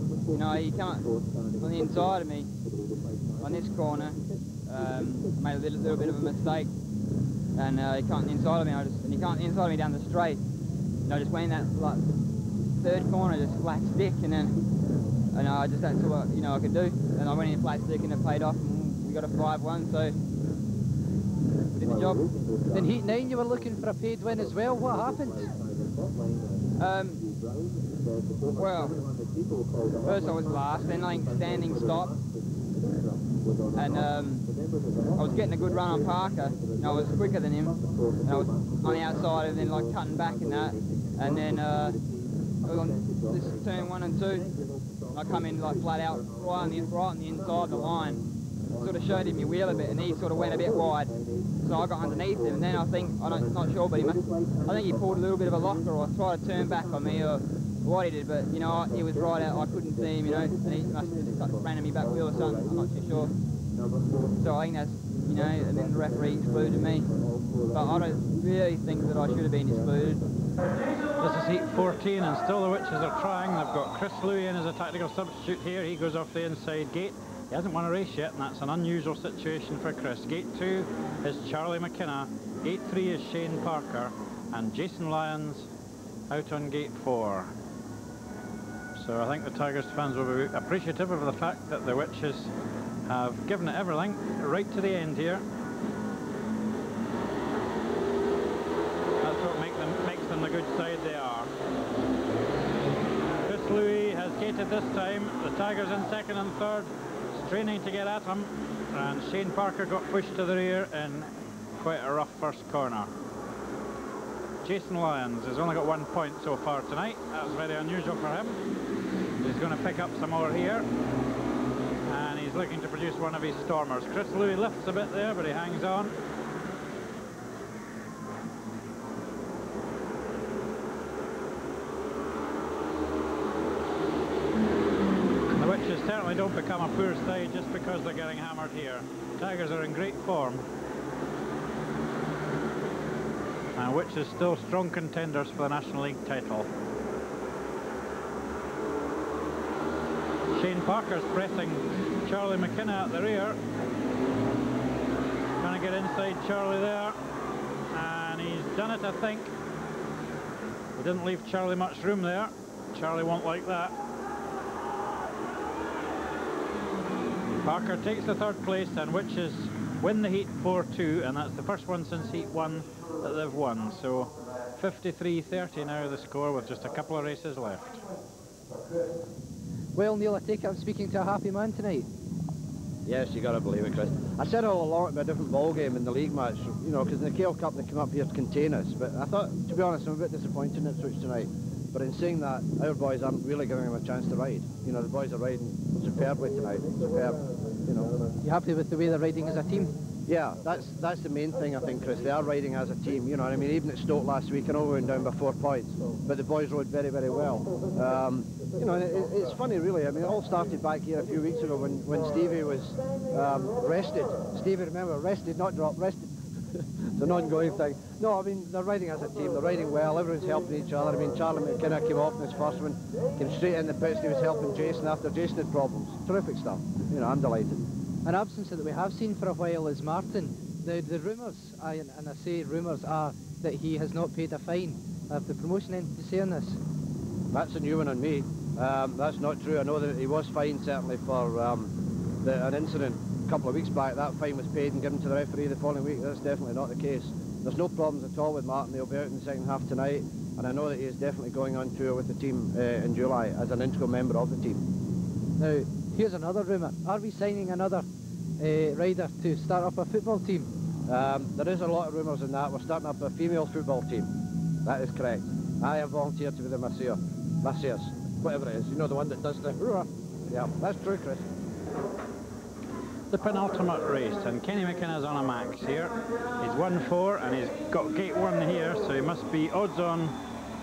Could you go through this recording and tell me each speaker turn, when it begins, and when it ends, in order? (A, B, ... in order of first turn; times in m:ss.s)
0:00.3-0:01.0 A
0:01.6-0:02.5 A
0:03.4-0:06.7 A
0:07.6-0:10.4 A
0:11.0-0:12.1 A
0:12.8-0:14.6 A
0:15.3-0:20.2 A
0:21.7-0:22.3 A
0:22.7-0:25.5 B
0:26.8-0:27.2 A
0:28.5-0:29.0 A
0:30.0-0:32.2 A
0:33.7-0:34.4 A
0:35.1-0:42.0 A
0:42.6-0:44.5 A
0:45.1-0:48.2 A
0:48.8-1:03.3 A
1:04.4-1:07.1 A
1:07.7-1:10.2 A
1:11.2-1:25.7 C
1:26.3-1:27.5 C
1:29.0-1:32.5 C
1:33.1-1:35.4 C
1:39.2-1:41.5 C
1:43.4-1:53.1 C
1:54.6-1:58.6 C
1:59.4-2:00.8 C
2:02.1-2:06.1 C
2:15.5-2:20.6 C
2:23.8-2:26.7 C
2:30.5-2:33.6 C
2:35.6-2:37.2 C
2:37.9-2:39.5 C
2:41.0-2:43.9 C
2:47.6-2:58.0 C
2:59.9-3:02.1 B
3:03.0-3:18.1 D
3:18.4-3:19.9 B
3:20.3-3:36.3 D
3:37.2-3:47.8 D
3:48.2-3:56.8 B
3:57.5-4:01.9 D
4:02.4-4:14.8 D
4:15.6-4:18.0 B
4:18.6-4:20.7 B
4:21.1-4:24.3 D
4:24.8-4:31.4 D
4:33.3-4:40.4 C